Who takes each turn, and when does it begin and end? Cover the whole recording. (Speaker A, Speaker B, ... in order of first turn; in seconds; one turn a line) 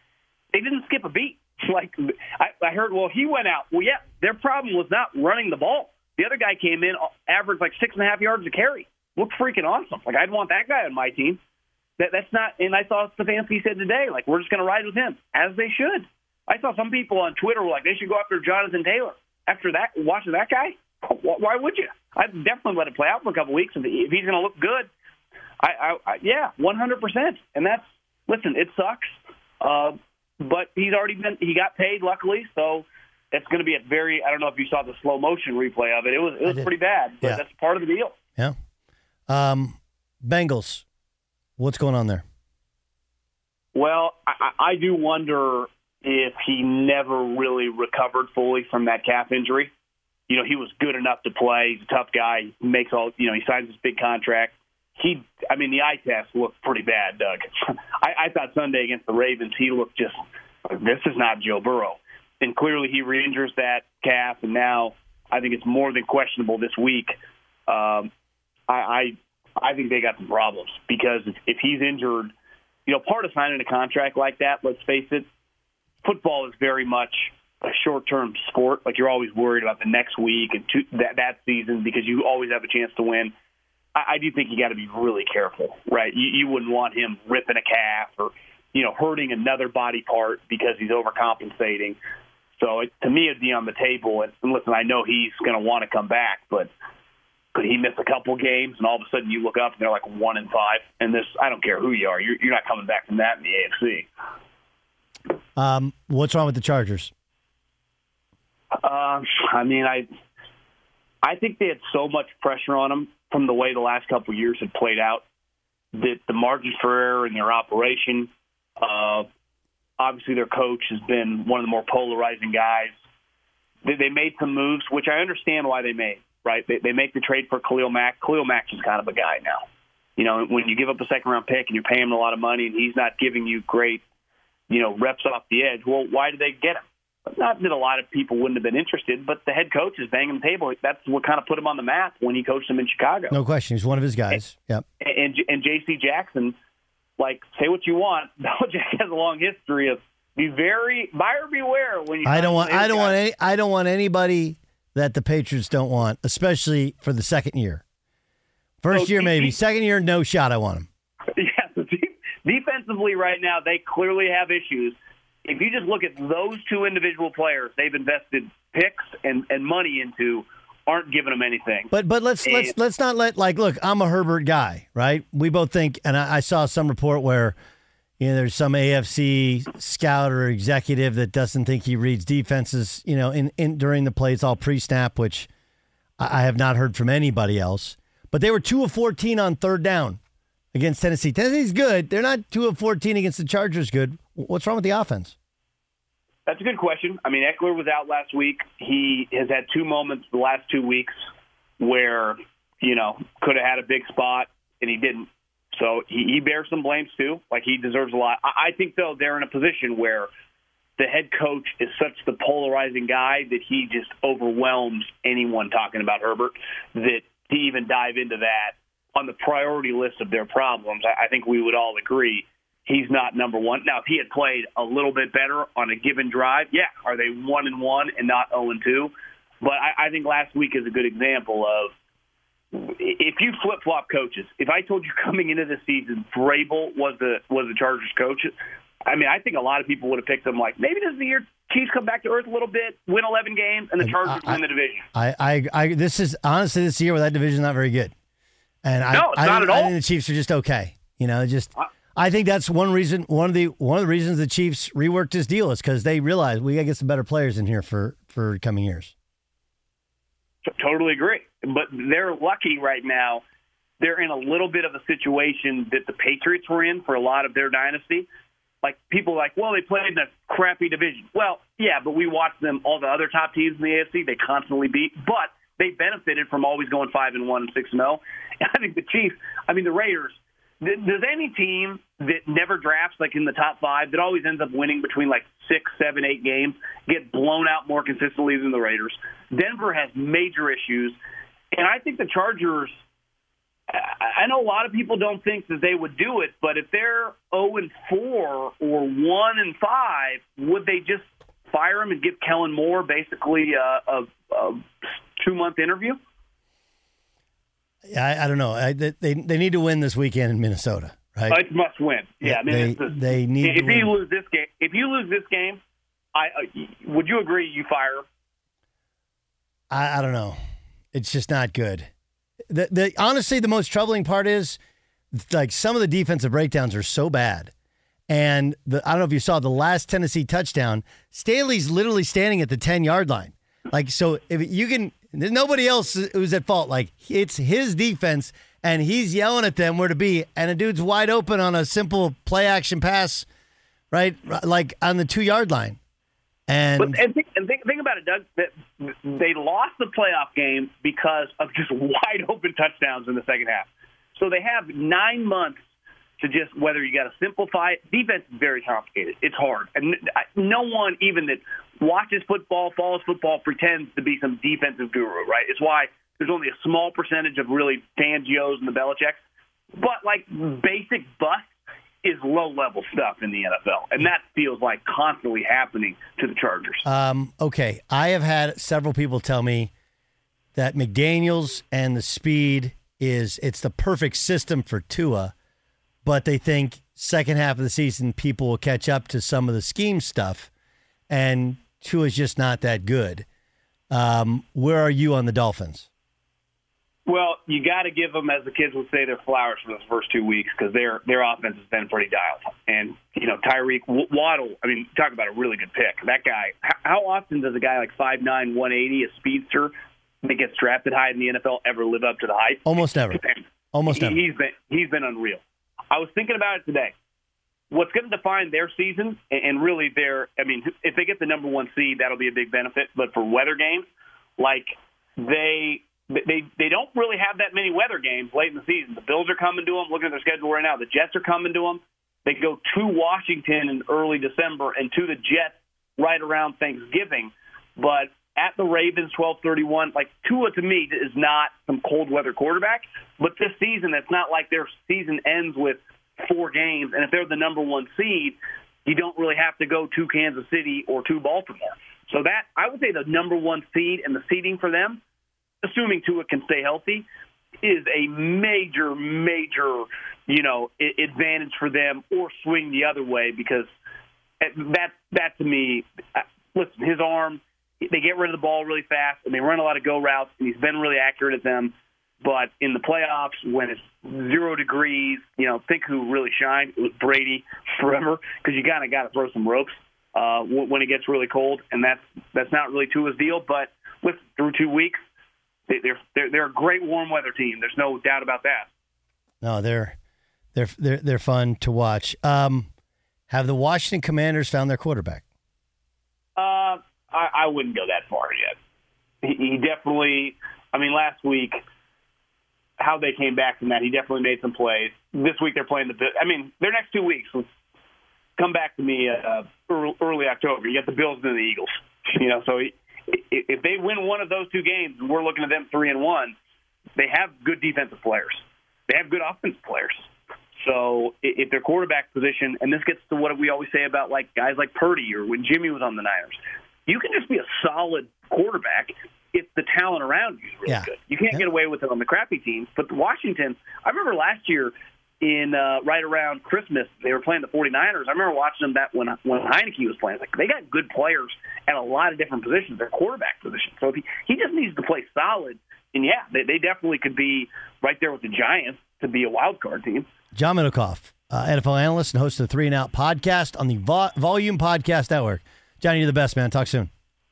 Speaker A: 0.5-11.4
Speaker A: 12.0-24.9
Speaker A: 25.6-38.1
Speaker B: 36.4-37.4
Speaker B: 39.3-40.8
Speaker B: 41.6-42.2
Speaker A: 43.7-49.7
Speaker A: 50.3-57.5
Speaker A: 58.0-67.1
Speaker A: 67.7-68.1
Speaker A: 68.7-72.3
Speaker A: 72.9-75.2
Speaker A: 76.0-83.3
Speaker A: 84.0-92.0
Speaker A: 92.5-96.7
Speaker A: 97.5-104.1
Speaker B: 105.5-107.1
Speaker A: 108.8-110.0
Speaker A: 111.2-115.2
Speaker A: 115.9-118.3
Speaker A: 118.8-119.3
Speaker A: 120.0-123.0
Speaker A: 123.8-129.6
Speaker A: 130.2-134.0
Speaker A: 134.7-143.4
Speaker B: 143.3-144.8
Speaker A: 145.0-146.5
Speaker A: 147.2-153.2
Speaker B: 152.2-157.8
Speaker B: 158.8-160.9
Speaker A: 158.9-159.6
Speaker A: 161.3-171.9
Speaker B: 171.9-177.5
Speaker A: 172.4-172.7
Speaker B: 178.2-185.5
Speaker B: 186.2-190.2
Speaker B: 190.7-195.3
Speaker A: 196.5-201.1
Speaker A: 201.8-210.3
Speaker A: 211.0-231.9
Speaker A: 232.7-238.5
Speaker A: 239.1-245.1
Speaker B: 244.0-244.6
Speaker B: 245.1-248.1
Speaker B: 248.8-259.1
Speaker A: 249.1-249.9
Speaker A: 260.6-263.4
Speaker A: 264.0-268.2
Speaker A: 268.8-291.2
Speaker A: 291.7-293.0
Speaker A: 293.9-306.2
Speaker B: 308.1-311.6
Speaker A: 311.5-315.8
Speaker B: 312.4-314.1
Speaker A: 316.3-318.2
Speaker B: 319.9-320.6
Speaker B: 321.1-322.1
Speaker B: 322.7-324.8
Speaker B: 325.3-327.7
Speaker B: 328.3-343.4
Speaker B: 344.1-346.0
Speaker B: 346.7-347.2
Speaker A: 347.0-355.8
Speaker A: 356.4-369.4
Speaker A: 369.9-371.7
Speaker A: 372.2-377.0
Speaker B: 377.0-379.9
Speaker B: 380.7-385.5
Speaker B: 386.2-390.7
Speaker B: 391.3-393.4
Speaker B: 394.1-396.1
Speaker A: 397.3-417.1
Speaker B: 412.9-413.4
Speaker B: 413.9-414.4
Speaker A: 417.9-424.0
Speaker A: 424.6-455.2
Speaker A: 455.8-457.2
Speaker A: 457.8-463.9
Speaker A: 464.6-485.2
Speaker A: 485.9-488.9
Speaker B: 489.6-490.2
Speaker B: 490.7-492.9
Speaker B: 493.5-495.4
Speaker A: 496.6-498.7
Speaker A: 499.4-501.8
Speaker A: 503.0-507.6
Speaker A: 508.6-516.5
Speaker A: 517.2-550.2
Speaker B: 530.9-531.6
Speaker B: 550.5-557.1